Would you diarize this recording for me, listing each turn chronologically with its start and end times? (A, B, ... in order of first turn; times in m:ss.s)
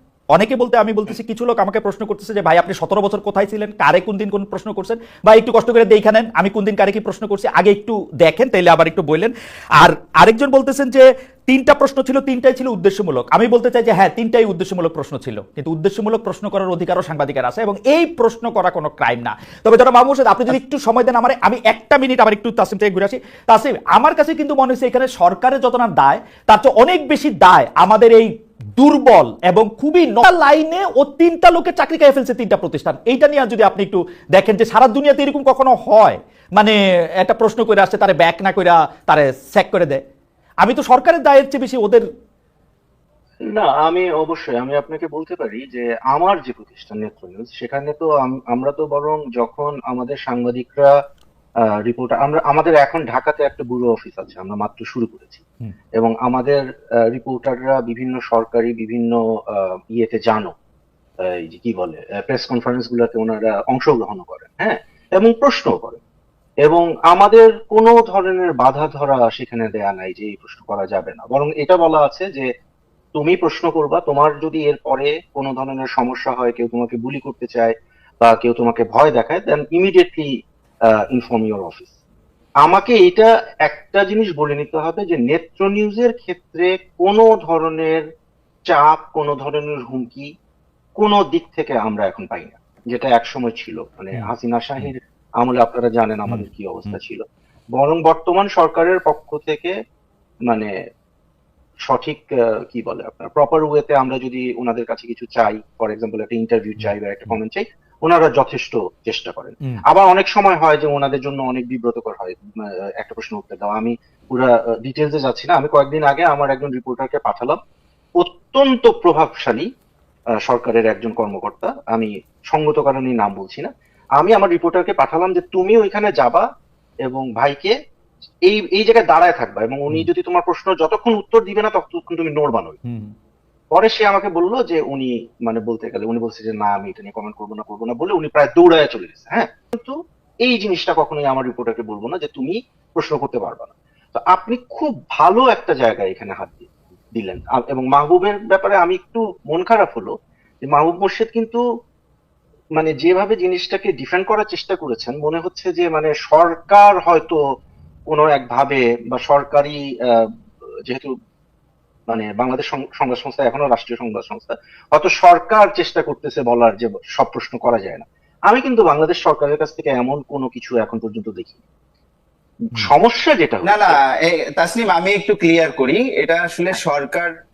0:00.3-0:40.0 A
0:40.6-0:42.0 A
0:43.5-0:50.9 B
0:51.8-0:55.4 B
0:56.0-1:00.5 B
1:01.2-1:06.0 B
1:06.6-1:12.5 B
1:13.1-1:20.3 B
1:21.1-1:21.9 B
1:22.6-1:28.0 B
1:28.7-1:30.3 B
1:31.0-1:39.7 B
1:34.1-1:34.9 A
1:36.3-1:36.9 A
1:41.9-1:57.6 B
1:46.8-1:47.3 A
1:58.2-1:59.6 B
2:00.4-2:06.4 B
2:07.0-2:07.7 B
2:08.5-2:12.8 B
2:12.8-2:13.1 A
2:13.7-2:30.1 B
2:30.6-2:31.6 B
2:32.8-2:37.4 B
2:38.1-2:40.2 B
2:40.8-2:41.1 B
2:42.1-2:51.6 B
2:52.6-2:54.0 B
2:53.6-2:57.3 C